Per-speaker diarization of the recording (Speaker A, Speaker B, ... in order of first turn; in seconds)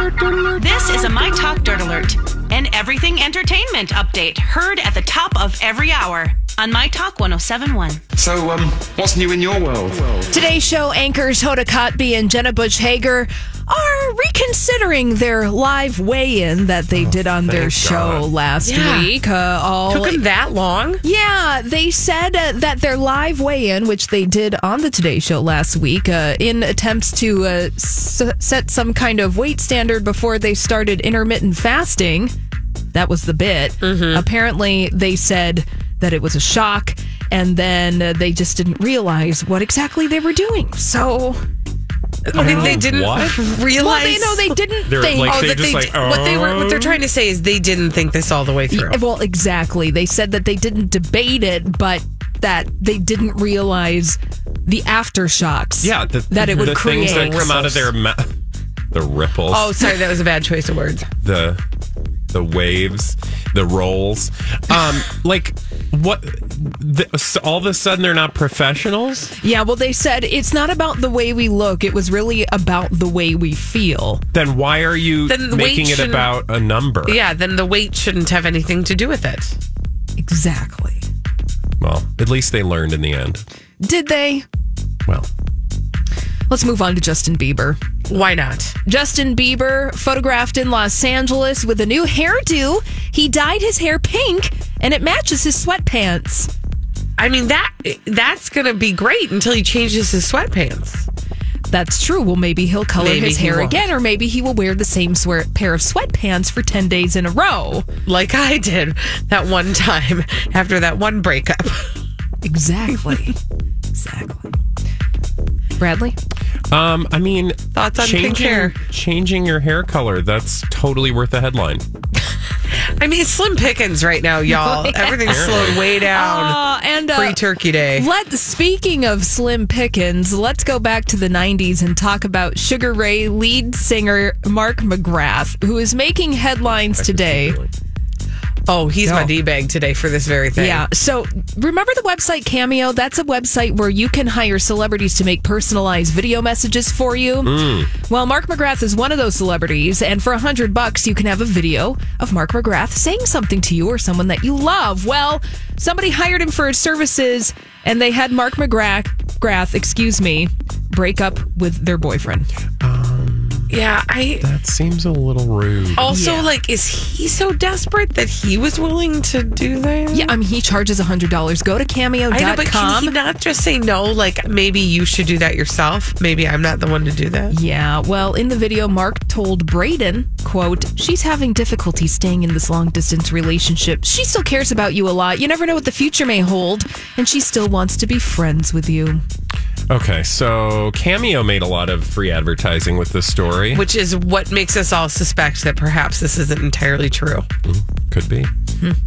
Speaker A: 0.5-8.0
Speaker B: 8.2-10.3
Speaker C: 10.3-20.2, 21.0-32.3, 32.9-41.4, 42.3-42.8, 43.8-45.5, 48.7-57.6, 69.4-74.2, 80.2-81.0, 83.8-84.4, 86.5-87.8, 88.8-96.5, 101.7-107.8, 112.4-113.3, 113.9-114.5, 115.8-116.1, 124.5-127.4, 127.9-137.6, 139.0-139.3, 140.5-162.5, 166.0-166.5, 170.1-173.2, 177.5-189.2
Speaker D: 16.9-18.3, 42.3-43.4, 44.8-47.0, 55.8-58.3, 58.9-59.9, 61.2-61.6, 62.3-69.3, 74.3-77.2, 81.8-83.4, 116.7-121.8, 125.3-125.8, 137.0-137.7, 147.4-147.9, 162.8-163.8, 164.4-166.1, 189.9-193.8, 197.6-198.5
Speaker E: 18.6-19.1, 19.9-21.0, 33.8-34.2, 42.3-44.5, 45.2-49.0, 56.4-57.9, 59.5-61.1, 75.3-76.3, 77.0-79.5, 88.1-88.8, 97.2-101.1, 102.9-103.9, 108.0-111.9, 112.9-113.2, 117.7-118.8, 123.0-126.6, 127.1-128.1, 138.7-140.8, 163.7-164.4, 166.0-170.3, 172.3-177.5, 193.7-197.5